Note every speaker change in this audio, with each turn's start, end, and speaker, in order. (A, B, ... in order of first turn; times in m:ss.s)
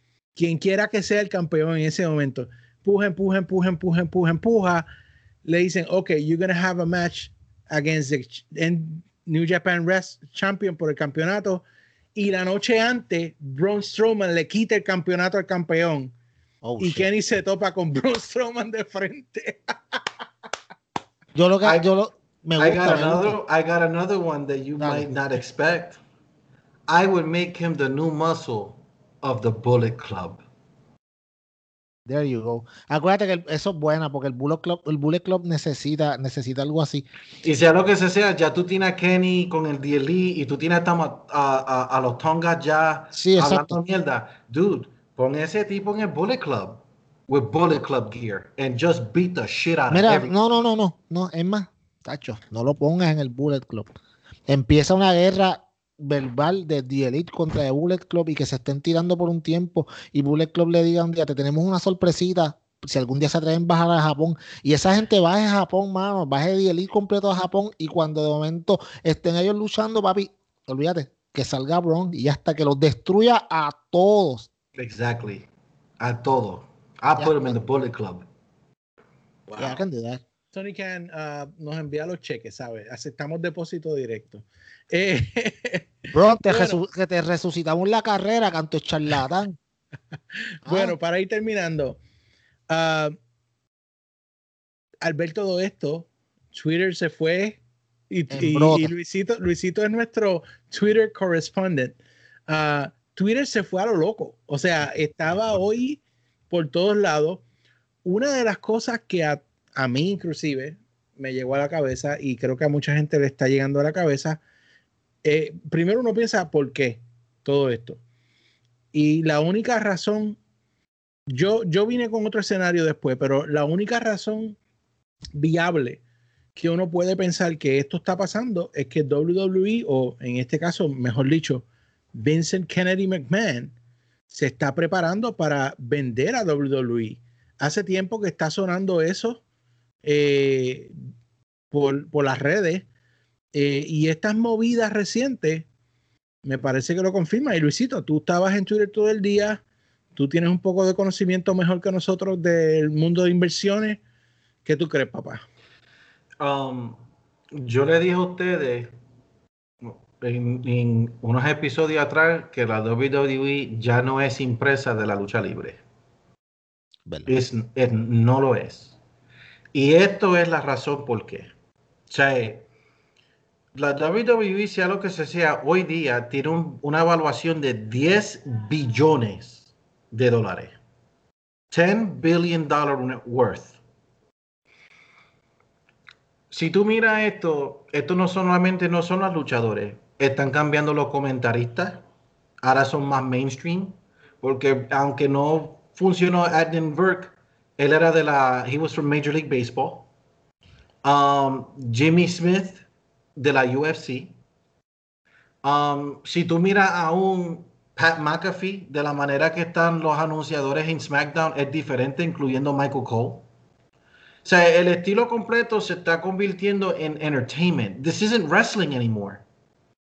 0:00.4-0:04.9 A
0:05.5-0:16.1 A
0:16.6-0:17.1 B
0:16.8-0:20.0 A
0:21.4-0:23.4 B
0:22.6-0:26.0 C
0:24.8-0:25.1 B
0:26.9-0:30.4 C
0:32.1-0:37.1 B
0:37.4-0:50.3 C
0:43.1-0:43.8 B
0:49.9-0:53.9 B
0:54.5-1:14.5 B
1:14.8-1:15.5 C
1:16.0-1:18.3 C
1:17.2-1:17.6 B
1:19.6-1:20.2 B
1:20.5-1:26.8 A
1:26.1-1:29.6 B
1:30.6-1:32.0 A
1:30.7-1:31.0 B
1:32.7-1:33.2 A
1:35.0-1:47.4 A
1:38.3-1:38.9 B
1:48.0-1:54.4 A
1:55.2-1:58.0 A
1:58.9-2:00.4 A
2:01.3-2:04.6 A
2:05.4-2:06.0 A
2:06.6-2:13.7 A
2:14.3-2:19.4 A
2:20.1-2:20.9 A
2:21.7-2:22.9 A
2:23.5-2:25.7 A
2:26.5-2:29.6 A
2:30.2-2:34.0 A
2:34.6-2:35.4 A
2:36.4-2:37.0 C
2:37.5-2:39.0 C
2:39.8-2:45.8 C
2:47.1-2:47.3 B
2:47.3-2:49.0 C
2:49.7-2:51.5 C
2:52.1-2:52.7 C
2:53.8-3:00.8 C
3:01.7-3:03.8 C
3:06.5-3:12.0 C
3:12.6-3:20.1 C
3:21.0-3:22.8 C
3:23.4-3:24.4 C
3:25.6-3:33.5 C
3:34.4-3:39.4 C